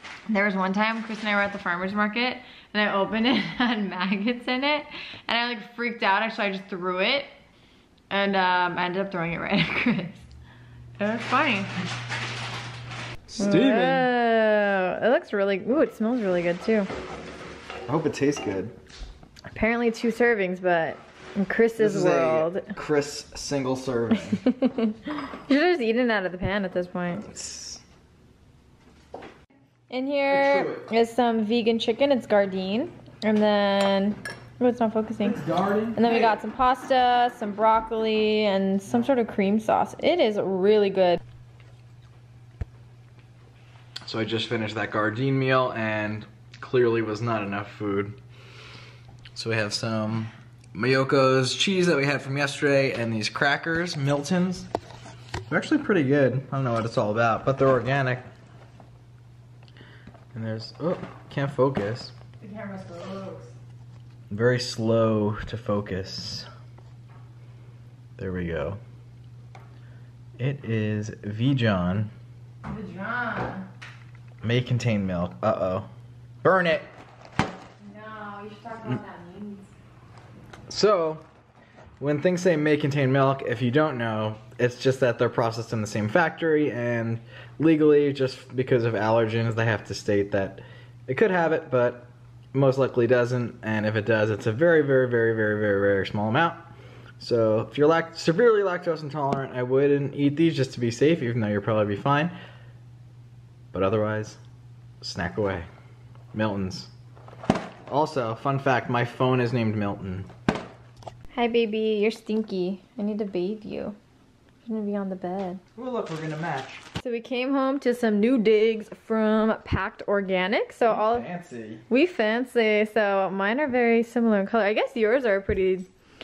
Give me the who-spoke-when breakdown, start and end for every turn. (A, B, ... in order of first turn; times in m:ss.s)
0:00.3-0:07.3 A
0:08.1-0:10.3 A
0:11.0-0:11.7 A
0:13.3-0:14.1 B
0:13.4-0:16.9 A
0:17.9-0:18.7 B
0:19.5-0:22.7 A
0:21.8-0:24.4 B
0:24.1-0:27.3 A
0:27.3-0:27.8 B
0:29.9-0:35.4 A
0:30.3-0:30.9 B
0:35.2-0:36.3 B
0:36.0-0:41.2 A
0:44.0-0:48.2 B
0:49.4-0:54.7 B
0:55.5-0:58.3 B
1:00.3-1:02.1 B
1:02.4-1:03.5 A
1:04.3-1:06.5 B
1:08.2-1:08.8 B
1:10.4-1:12.1 B
1:12.6-1:13.7 A
1:14.4-1:15.9 B
1:16.4-1:16.9 B
1:17.8-1:19.7 A
1:20.7-1:21.2 B
1:22.0-1:36.7 B
1:37.2-1:42.4 B
1:43.7-1:44.4 B
1:45.0-1:45.7 B
1:46.3-1:46.9 B
1:47.9-1:50.3 B
1:51.3-1:54.0 A
1:54.6-1:55.6 A
1:55.8-1:56.8 B
1:57.0-2:01.3 A
2:00.8-2:01.8 B
2:01.9-2:05.9 A